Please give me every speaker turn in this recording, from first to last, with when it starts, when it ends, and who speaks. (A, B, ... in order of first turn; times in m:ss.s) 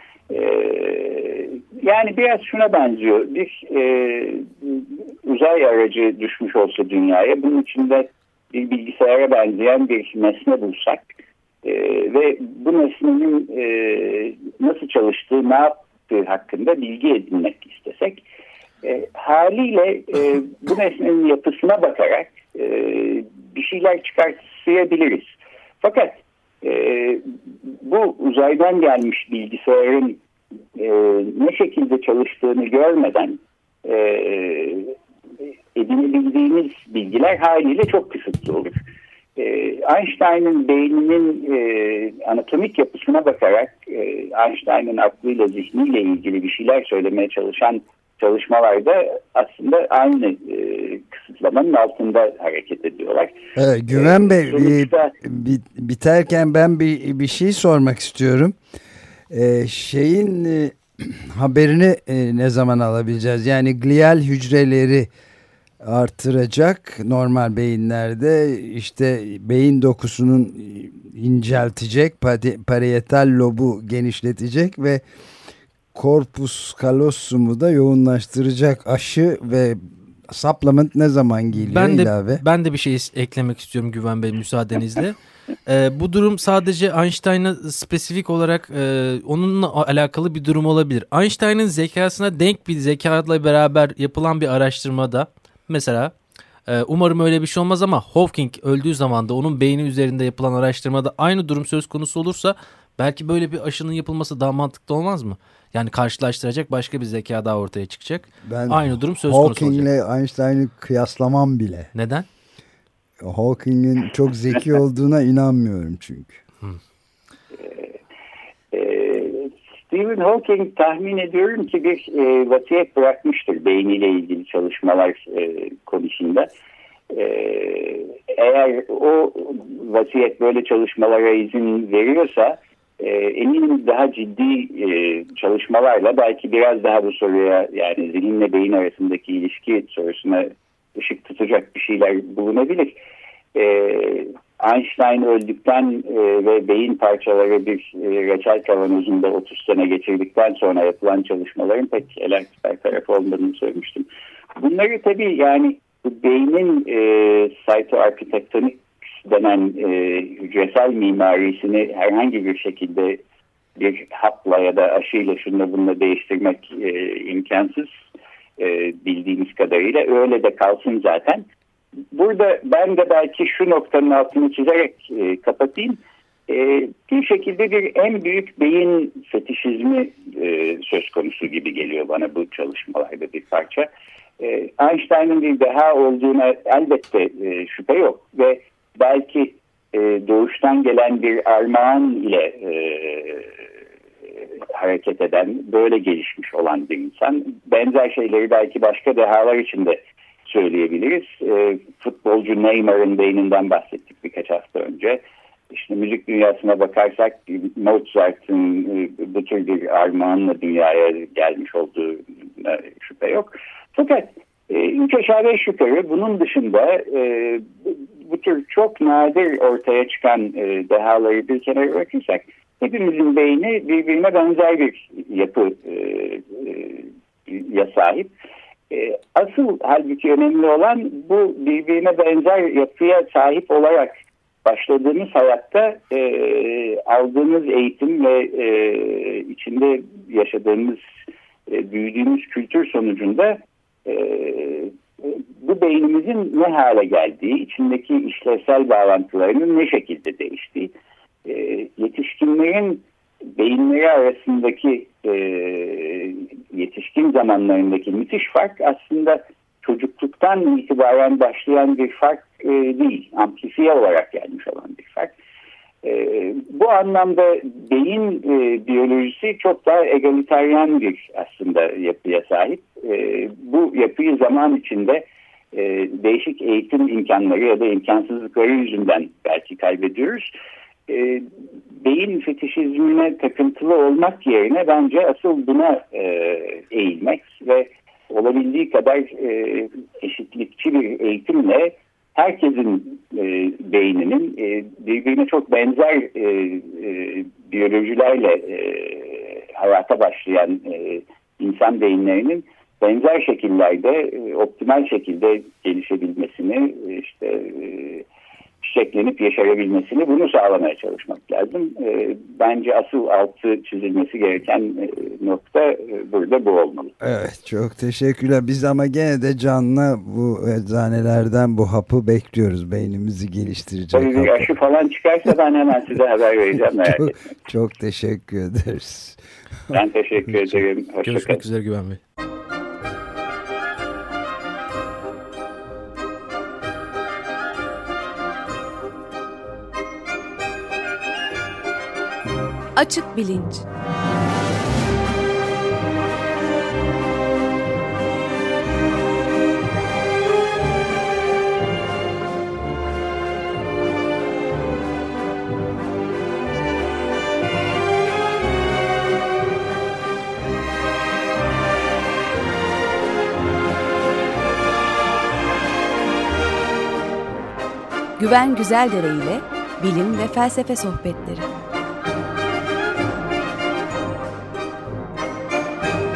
0:00.3-0:11.1 A
0:11.6-0:18.2 A
0:18.8-0:30.2 A
0:30.8-0:35.0 A
0:35.7-0:38.7 A
0:39.4-0:53.4 A
0:53.6-0:58.6 B
0:53.9-0:55.1 A
0:59.3-1:05.1 B
1:05.8-1:15.0 B
1:15.9-1:22.4 B
1:21.6-1:36.1 C
1:36.7-1:49.9 C
1:48.4-1:51.9 B
1:51.9-1:52.3 C
1:53.2-1:56.4 B
1:57.6-1:58.0 A
1:58.7-2:06.5 A
2:07.1-2:23.0 A
2:23.6-2:43.2 A
2:43.8-2:47.9 A
2:48.6-2:51.4 A
2:52.1-3:03.9 A
3:04.4-3:13.5 A
3:14.7-3:48.3 A
3:48.9-4:01.1 A
4:01.7-4:10.9 A
4:11.4-4:25.3 A
4:26.0-4:40.5 A
4:41.1-4:41.5 A
4:42.0-5:08.3 A
5:08.8-5:17.1 A
5:17.2-5:24.7 B
5:24.1-5:27.4 A
5:27.0-5:30.0 B
5:29.9-5:31.6 A
5:31.2-5:32.2 C
5:43.0-5:43.8 D
6:08.4-6:11.7 D